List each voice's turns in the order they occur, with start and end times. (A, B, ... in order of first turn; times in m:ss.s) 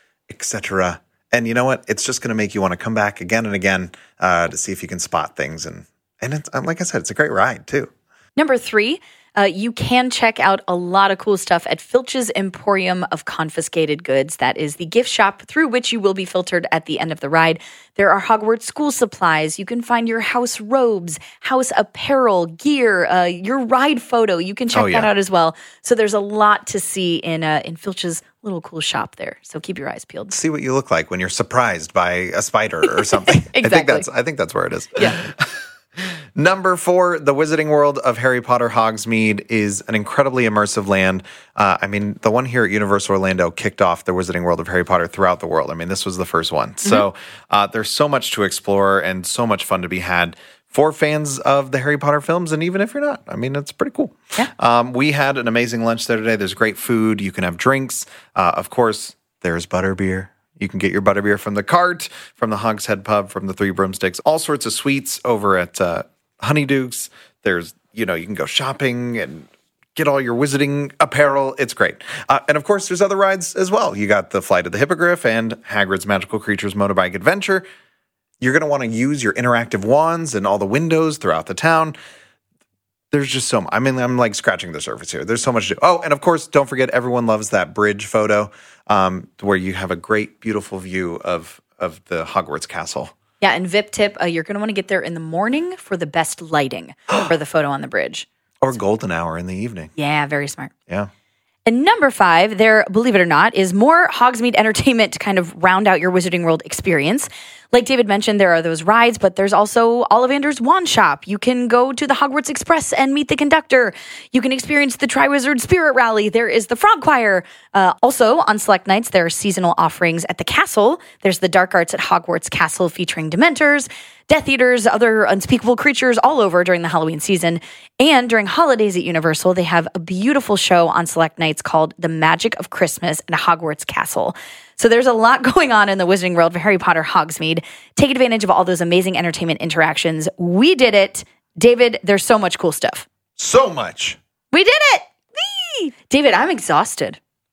0:00.3-0:07.9 A
0:08.4-0:30.3 B
0:24.7-0:25.1 A
0:30.3-1:17.6 A
0:33.0-0:34.1 B
0:35.0-0:35.2 B
1:18.4-1:22.0 A
1:23.1-1:33.1 A
1:33.4-1:38.3 B
1:38.6-1:39.9 A
1:40.0-1:40.7 B
1:41.6-2:23.0 B
2:23.4-2:24.2 A
2:24.5-2:27.2 B